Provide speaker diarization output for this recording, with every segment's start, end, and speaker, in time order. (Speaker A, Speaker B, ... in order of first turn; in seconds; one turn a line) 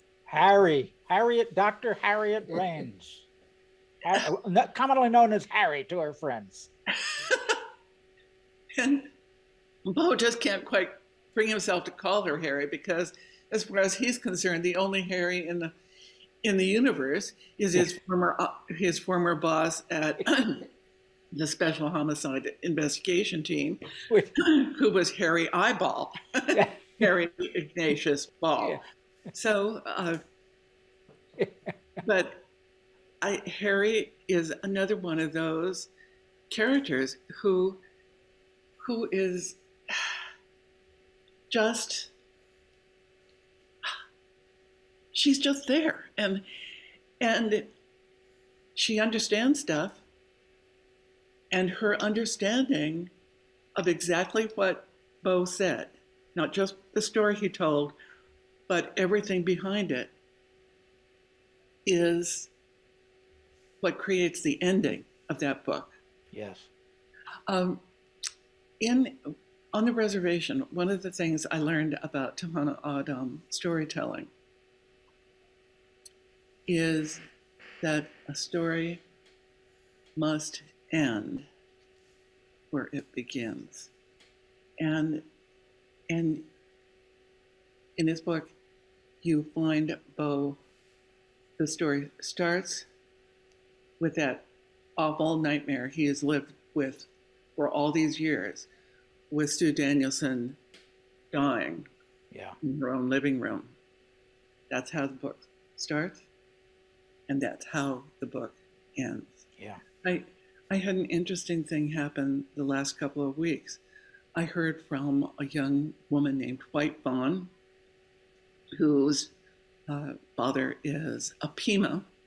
Speaker A: 0.3-3.3
Speaker A: 4.0-6.7
Speaker B: 7.0-7.6
Speaker B: 8.8-9.1
Speaker B: 9.8-15.7
Speaker B: 16.4-20.7
Speaker B: 21.3-23.8
Speaker B: 24.4-28.8
Speaker A: 26.5-27.1
Speaker B: 29.3-30.2
Speaker A: 31.4-31.7
Speaker B: 32.0-32.4
Speaker B: 33.2-35.9
Speaker B: 36.5-37.8
Speaker B: 38.8-40.1
Speaker B: 41.5-42.1
Speaker B: 45.1-46.4
Speaker B: 47.2-47.7
Speaker B: 48.8-50.0
Speaker B: 51.5-53.1
Speaker B: 53.8-57.9
Speaker B: 58.7-60.1
Speaker B: 61.9-62.5
Speaker B: 63.8-66.0
Speaker A: 66.3-66.7
Speaker B: 67.5-67.8
Speaker B: 68.8-74.3
Speaker B: 76.7-77.2
Speaker B: 77.8-79.0
Speaker B: 80.2-81.5
Speaker B: 82.7-83.9
Speaker B: 84.8-85.2
Speaker B: 86.1-86.4
Speaker B: 88.0-88.5
Speaker B: 89.2-90.6
Speaker B: 91.6-92.9
Speaker B: 94.0-94.5
Speaker B: 95.0-98.7
Speaker B: 99.3-100.6
Speaker B: 101.3-101.9
Speaker B: 102.6-103.7
Speaker B: 104.7-106.2
Speaker B: 107.3-109.4
Speaker B: 110.0-113.8
Speaker B: 114.3-117.5
Speaker B: 118.7-119.3
Speaker B: 119.9-122.1